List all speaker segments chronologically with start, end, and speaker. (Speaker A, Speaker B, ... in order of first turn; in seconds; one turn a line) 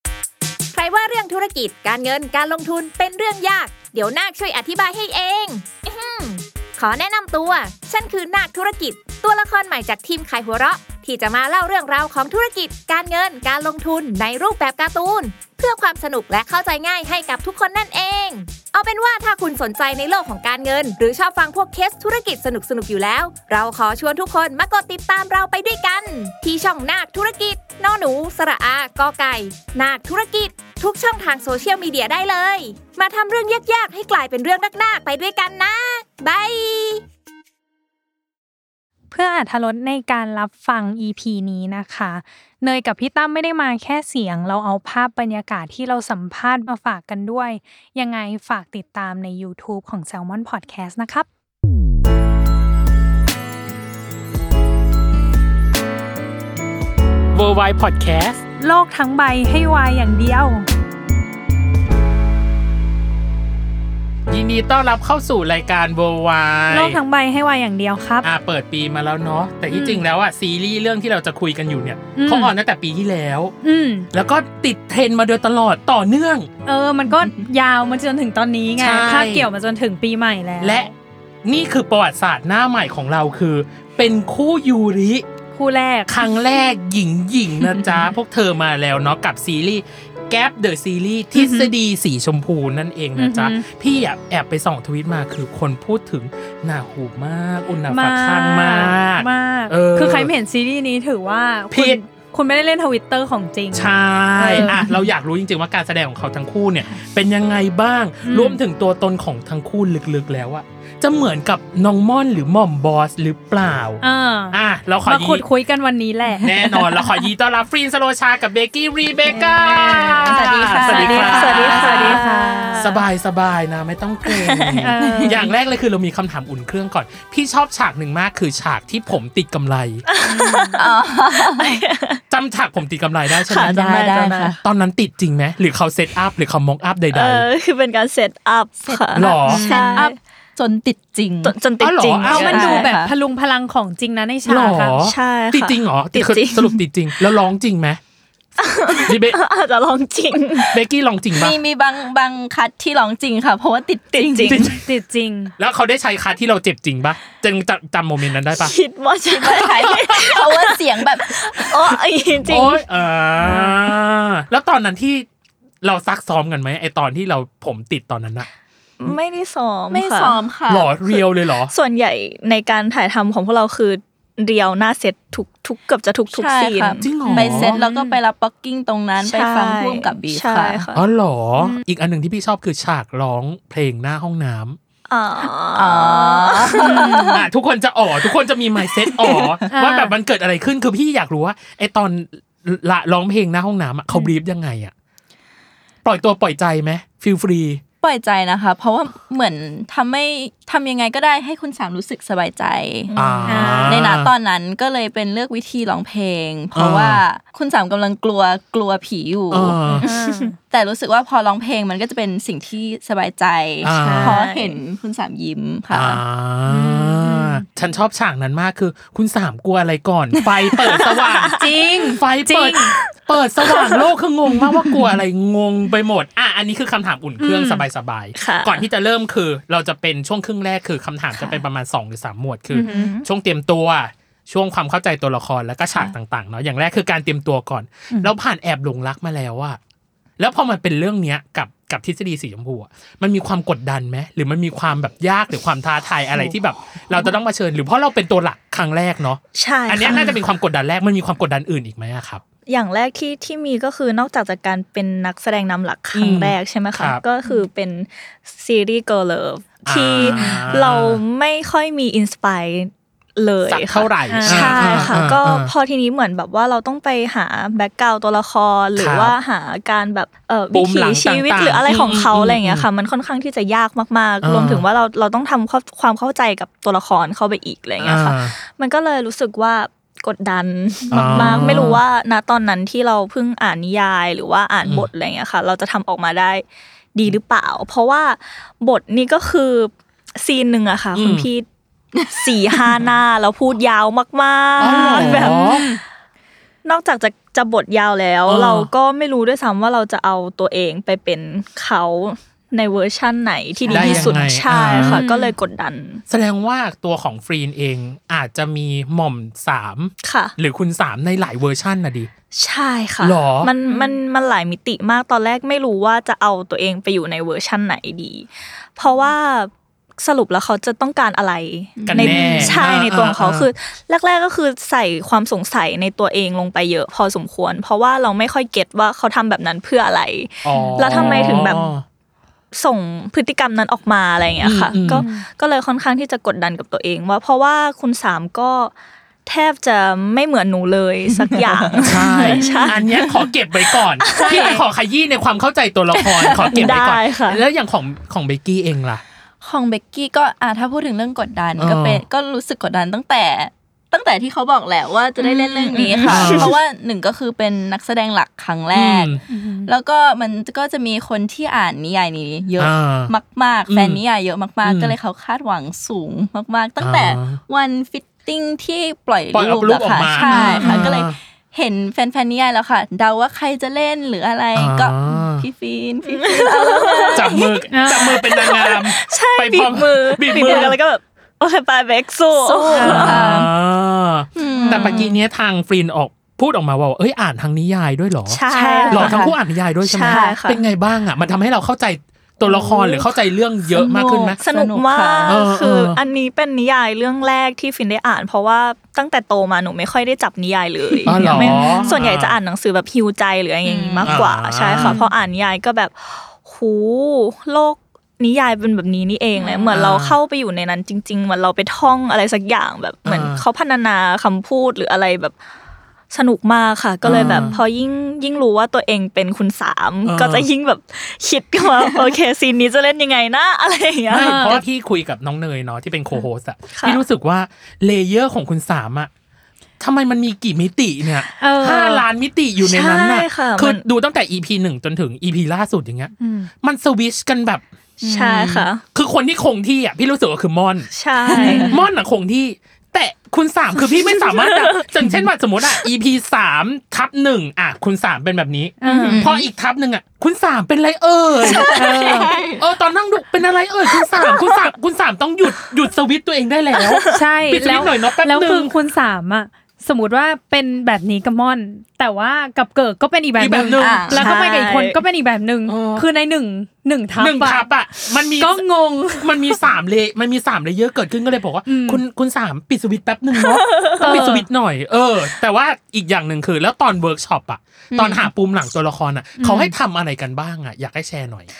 Speaker A: 0.7-37.0
Speaker B: 39.1-51.3
Speaker C: 57.3-58.4
Speaker B: 58.6-60.7
Speaker C: 64.3-67.0
Speaker B: 66.7-68.2
Speaker C: 68.2-73.5
Speaker B: 69.7-70.0
Speaker B: 72.2-72.5
Speaker B: 73.6-74.1
Speaker C: 74.1-76.5
Speaker B: 76.7-80.9
Speaker C: 78.8-79.5
Speaker C: 80.6-80.9
Speaker C: 81.4-85.2
Speaker B: 85.5-86.4
Speaker C: 86.1-100.3
Speaker B: 91.3-91.7
Speaker B: 93.2-93.7
Speaker B: 97.9-103.8
Speaker C: 101.7-102.0
Speaker C: 103.7-115.4
Speaker B: 104.4-105.0
Speaker B: 108.2-108.6
Speaker B: 114.0-116.8
Speaker C: 116.4-122.2
Speaker B: 119.3-122.9
Speaker D: 119.9-122.2
Speaker E: 121.3-123.0
Speaker C: 122.8-130.0
Speaker E: 124.3-124.9
Speaker B: 124.8-125.5
Speaker D: 125.0-125.5
Speaker E: 130.1-132.2
Speaker B: 130.2-130.8
Speaker D: 130.8-131.8
Speaker C: 132.3-137.4
Speaker E: 133.4-134.5
Speaker D: 133.6-134.6
Speaker E: 137.1-140.1
Speaker D: 138.8-141.6
Speaker C: 139.1-139.7
Speaker B: 139.5-140.0
Speaker E: 141.4-142.9
Speaker C: 141.8-142.8
Speaker D: 142.2-143.1
Speaker B: 142.3-144.9
Speaker C: 144.5-148.0
Speaker E: 145.0-146.8
Speaker E: 148.6-150.7
Speaker C: 149.1-149.4
Speaker C: 150.7-151.6
Speaker D: 151.3-154.7
Speaker E: 154.1-154.7
Speaker C: 154.4-154.8
Speaker B: 154.8-155.5
Speaker C: 155.6-158.7
Speaker E: 158.6-160.8
Speaker D: 159.3-161.7
Speaker C: 159.8-160.4
Speaker E: 161.3-162.8
Speaker C: 162.4-165.2
Speaker B: 163.4-163.7
Speaker C: 165.8-168.5
Speaker E: 169.0-170.4
Speaker D: 169.9-170.9
Speaker C: 170.7-171.7
Speaker E: 171.7-177.1
Speaker D: 176.3-180.8
Speaker C: 177.0-177.7
Speaker B: 177.2-178.2
Speaker E: 179.2-181.0
Speaker C: 180.9-184.8
Speaker E: 185.1-187.2
Speaker D: 185.5-187.5
Speaker B: 186.8-187.4
Speaker C: 187.3-194.9
Speaker D: 188.8-189.6
Speaker B: 189.7-190.1
Speaker C: 196.0-197.8
Speaker D: 198.0-203.1
Speaker E: 203.1-203.6
Speaker B: 203.1-204.1
Speaker C: 203.2-204.3
Speaker D: 203.8-216.2
Speaker C: 206.7-207.2
Speaker C: 209.5-210.1
Speaker B: 209.9-210.5
Speaker C: 213.8-214.4
Speaker B: 213.9-214.4
Speaker E: 214.2-214.7
Speaker C: 215.9-239.8
Speaker B: 216.7-217.6
Speaker E: 221.2-221.9
Speaker B: 221.5-222.9
Speaker B: 227.4-227.8
Speaker E: 228.3-228.8
Speaker D: 231.3-231.6
Speaker B: 232.7-233.1
Speaker E: 232.8-233.2
Speaker C: 240.4-252.4
Speaker E: 249.5-250.3
Speaker E: 252.7-286.6
Speaker C: 256.1-257.2
Speaker C: 259.9-261.2
Speaker B: 260.2-260.8
Speaker C: 263.7-265.7
Speaker B: 264.3-265.2
Speaker C: 268.9-269.3
Speaker C: 270.7-272.9
Speaker C: 274.4-274.8
Speaker C: 278.0-278.5
Speaker C: 281.1-282.0
Speaker E: 287.1-291.6
Speaker C: 291.1-291.5
Speaker D: 292.1-293.0
Speaker E: 292.3-295.7
Speaker C: 294.8-295.9
Speaker B: 294.9-296.0
Speaker E: 296.8-306.2
Speaker C: 298.5-298.9
Speaker D: 303.8-304.5
Speaker C: 303.9-305.2
Speaker B: 303.9-304.2
Speaker B: 305.0-305.5
Speaker C: 306.3-312.3
Speaker E: 310.2-310.5
Speaker E: 312.5-331.8
Speaker C: 313.2-313.7
Speaker B: 313.8-314.2
Speaker D: 322.0-322.8
Speaker C: 322.1-323.7
Speaker B: 322.3-322.6
Speaker C: 330.6-332.0
Speaker B: 330.7-331.9
Speaker E: 332.7-338.9
Speaker C: 334.6-335.2
Speaker B: 335.1-335.5
Speaker E: 339.4-342.9
Speaker D: 341.3-343.5
Speaker C: 342.1-349.2
Speaker B: 342.6-342.9
Speaker E: 344.2-344.6
Speaker B: 344.3-344.8
Speaker D: 346.1-346.9
Speaker E: 346.7-347.6
Speaker D: 349.6-377.9
Speaker C: 351.8-352.2
Speaker E: 355.4-356.6
Speaker C: 356.3-356.7
Speaker C: 358.9-359.4
Speaker B: 359.5-359.9
Speaker C: 362.8-363.3
Speaker C: 363.9-364.2
Speaker C: 364.8-365.1
Speaker C: 367.0-367.6
Speaker C: 369.5-371.3
Speaker B: 370.4-370.9
Speaker C: 374.7-375.7
Speaker E: 376.3-377.6
Speaker C: 377.3-381.0
Speaker B: 377.9-378.4
Speaker E: 378.1-383.4
Speaker D: 380.5-380.9
Speaker D: 382.5-383.7
Speaker B: 382.9-383.6
Speaker C: 383.0-388.6
Speaker D: 384.5-385.4
Speaker B: 384.8-385.2
Speaker E: 388.5-389.4
Speaker D: 388.7-389.6
Speaker B: 389.1-389.3
Speaker C: 389.1-394.6
Speaker E: 390.0-390.8
Speaker D: 390.2-390.6
Speaker D: 393.9-395.6
Speaker E: 394.6-415.5
Speaker C: 395.4-396.2
Speaker D: 401.2-402.0
Speaker C: 401.2-402.6
Speaker B: 401.3-402.1
Speaker D: 403.8-404.4
Speaker C: 404.2-405.1
Speaker B: 405.0-405.3
Speaker D: 409.6-410.0
Speaker C: 409.9-410.4
Speaker C: 413.2-413.6
Speaker E: 416.3-424.8
Speaker C: 417.2-417.8
Speaker D: 417.3-417.7
Speaker C: 420.2-420.7
Speaker C: 424.3-429.3
Speaker B: 424.4-424.8
Speaker E: 426.9-427.2
Speaker C: 430.0-437.8
Speaker B: 431.6-432.2
Speaker E: 432.8-434.0
Speaker B: 436.4-436.7
Speaker D: 438.2-438.9
Speaker E: 438.2-439.0
Speaker C: 439.1-441.1
Speaker E: 441.1-441.9
Speaker D: 441.4-442.0
Speaker B: 441.5-442.0
Speaker C: 441.6-458.9
Speaker E: 444.6-445.0
Speaker B: 449.0-449.4
Speaker E: 449.0-449.4
Speaker D: 449.2-449.6
Speaker D: 451.6-452.9
Speaker B: 451.6-452.5
Speaker E: 454.2-454.9
Speaker E: 456.9-457.4
Speaker B: 457.3-467.9
Speaker C: 463.6-464.3
Speaker D: 463.7-464.5
Speaker E: 464.4-465.2
Speaker C: 465.9-466.3
Speaker C: 467.4-468.8
Speaker B: 468.6-469.8
Speaker C: 469.4-481.7
Speaker B: 471.9-472.2
Speaker E: 473.7-474.4
Speaker B: 474.2-474.7
Speaker D: 478.1-478.4
Speaker B: 479.6-479.9